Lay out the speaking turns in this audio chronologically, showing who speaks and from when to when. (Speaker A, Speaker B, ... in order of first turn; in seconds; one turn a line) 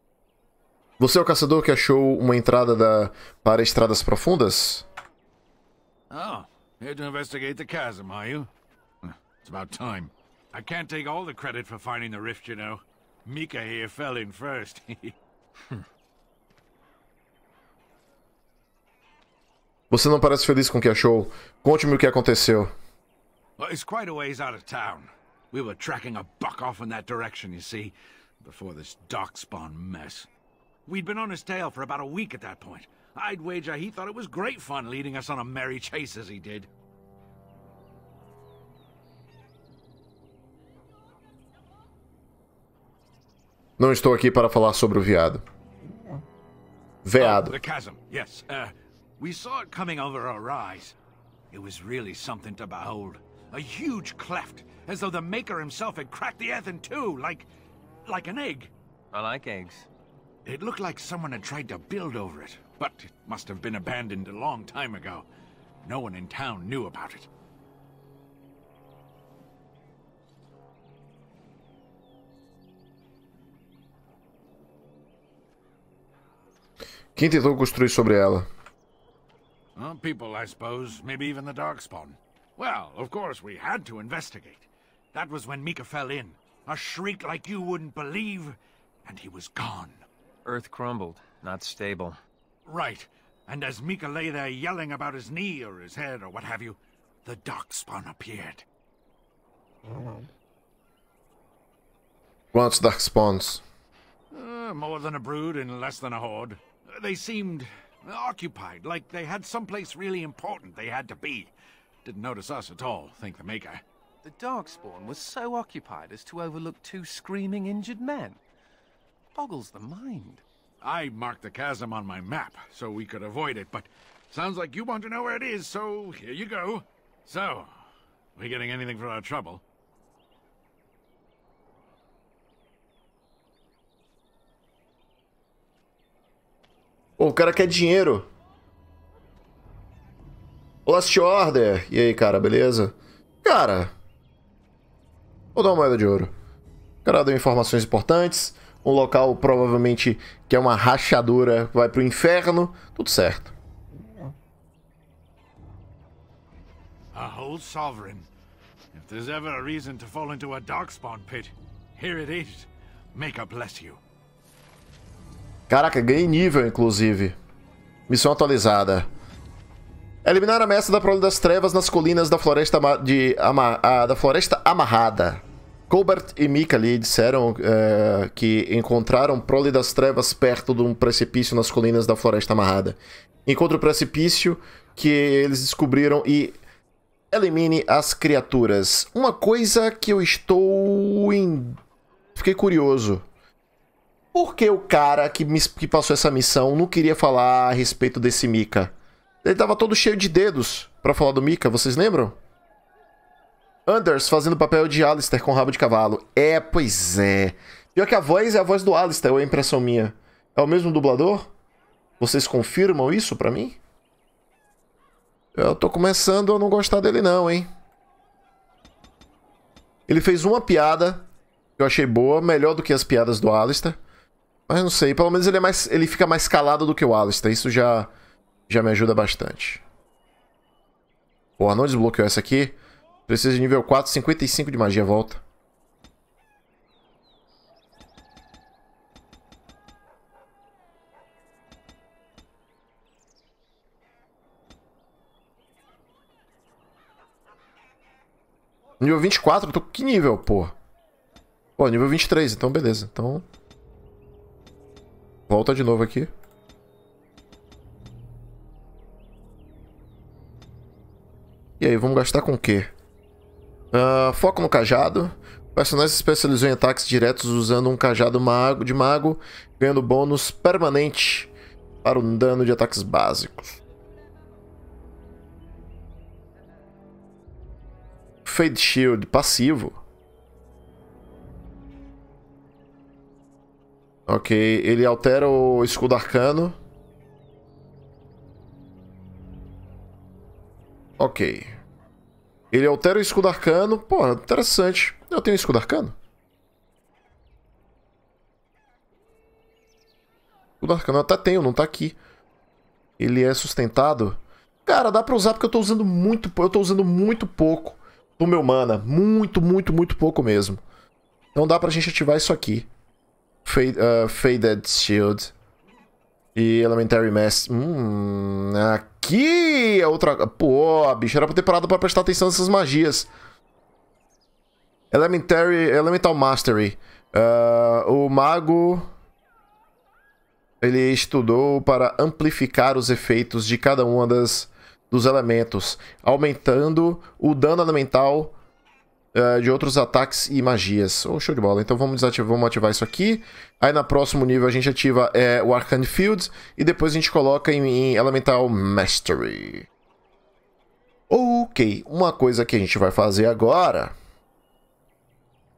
Speaker A: 1.0-4.9
Speaker B: 6.1-8.5
Speaker B: 9.0-15.1
Speaker A: 19.9-22.7
Speaker B: 23.6-30.3
Speaker B: 30.9-36.7
Speaker A: 43.8-45.4
Speaker A: 47.0-47.6
Speaker B: 47.2-50.9
Speaker B: 51.5-57.5
Speaker B: 58.0-58.7
Speaker C: 59.1-59.9
Speaker B: 60.5-65.2
Speaker B: 65.8-67.3
Speaker A: 77.2-78.5
Speaker B: 79.8-90.0
Speaker C: 90.4-92.2
Speaker B: 92.7-98.6
Speaker A: 102.5-103.6
Speaker B: 104.3-111.5
Speaker B: 112.0-113.8
Speaker D: 114.2-118.4
Speaker D: 119.3-120.4
Speaker B: 120.8-127.7
Speaker B: 128.3-129.6
Speaker A: 137.2-138.3
Speaker A: 140.8-143.9
Speaker A: 145.5-146.3
Speaker A: 147.0-153.5
Speaker B: 157.1-158.3
Speaker B: 158.9-164.0
Speaker A: 165.7-167.4
Speaker A: 168.1-169.1
Speaker A: 170.2-186.6
Speaker A: 187.3-191.8
Speaker A: 192.3-193.2
Speaker A: 194.3-202.4
Speaker A: 203.8-211.5
Speaker A: 212.2-213.8
Speaker A: 215.5-217.7
Speaker A: 220.1-224.0
Speaker A: 224.7-228.1
Speaker A: 228.7-229.8
Speaker A: 231.6-232.8
Speaker A: 233.3-235.4
Speaker A: 249.0-250.7
Speaker A: 251.8-253.4
Speaker A: 255.5-256.3
Speaker A: 261.8-262.9
Speaker A: 263.9-271.5
Speaker A: 272.0-273.8
Speaker A: 278.4-280.0
Speaker A: 284.3-286.8
Speaker A: 291.2-291.8
Speaker A: 292.7-296.1
Speaker A: 300.8-302.2
Speaker A: 303.2-310.8
Speaker A: 311.5-312.9
Speaker A: 313.6-315.5
Speaker A: 316.5-323.3
Speaker A: 325.1-329.1
Speaker A: 330.8-338.5
Speaker A: 339.3-349.9
Speaker A: 351.3-354.1